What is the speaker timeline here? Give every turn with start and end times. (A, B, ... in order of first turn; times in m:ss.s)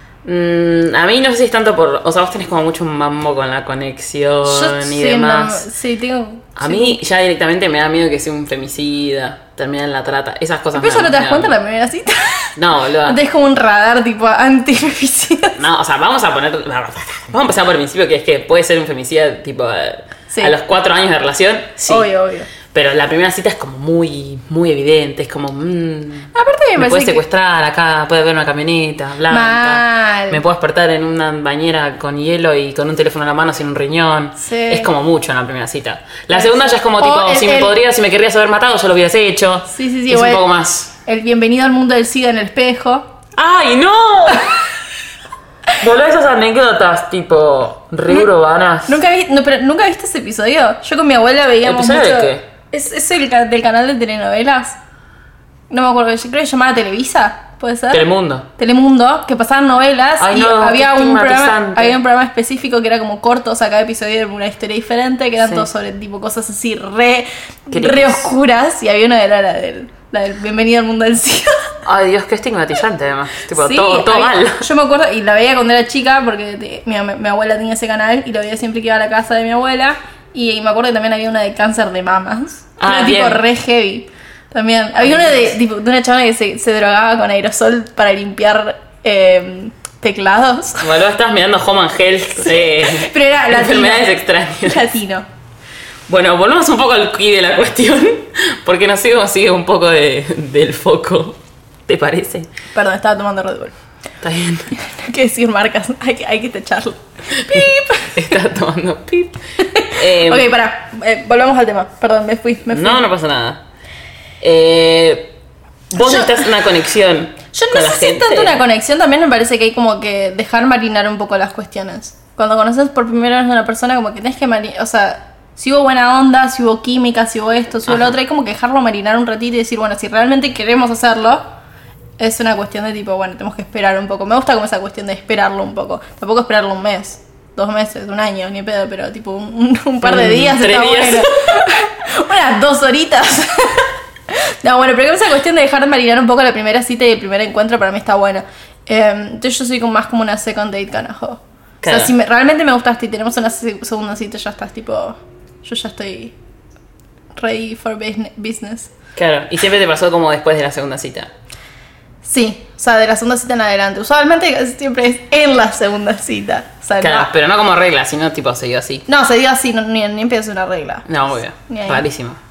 0:00.2-0:05.7 A
0:04.4-0:07.0 B
0:06.6-0:11.5 A
0:10.7-0:15.6 B
0:12.6-0:13.2 A
0:15.6-0:22.1 A
0:20.3-0:20.6 B
0:21.9-0:22.5 B
0:22.6-0:40.9 A
0:26.3-0:27.2 B
0:29.3-0:30.4 B
0:34.4-0:34.9 B
0:36.3-0:37.7 B
0:39.7-0:40.4 B
0:41.0-0:43.1 B
0:43.4-0:44.6 A
0:45.8-0:49.0 A
0:48.9-0:54.8 B
0:51.6-0:52.4 A
0:55.7-0:58.0 B
0:57.9-0:58.5 A
0:58.6-1:11.7 B
1:00.2-1:02.0 A
1:07.7-1:08.3 A
1:11.8-1:14.6 A
1:13.5-1:30.9 B
1:22.8-1:23.4 A
1:25.0-1:25.5 A
1:30.8-1:34.8 A
1:32.4-1:35.2 B
1:36.1-1:42.5 A
1:42.7-1:43.7 B
1:44.2-1:44.7 A
1:44.7-1:48.2 B
1:47.4-1:50.5 A
1:49.6-1:53.0 B
1:52.7-1:53.6 A
1:54.4-1:55.3 A
1:55.9-1:58.6 A
1:56.0-1:56.5 B
1:57.5-2:11.4 B
2:12.2-2:36.3 B
2:20.0-2:21.6 A
2:31.8-2:32.1 A
2:37.4-2:38.9 B
2:39.2-2:41.3 A
2:42.2-2:47.3 B
2:47.0-2:49.0 A
2:49.1-2:51.1 B
2:51.1-2:52.4 A
2:51.7-2:52.0 B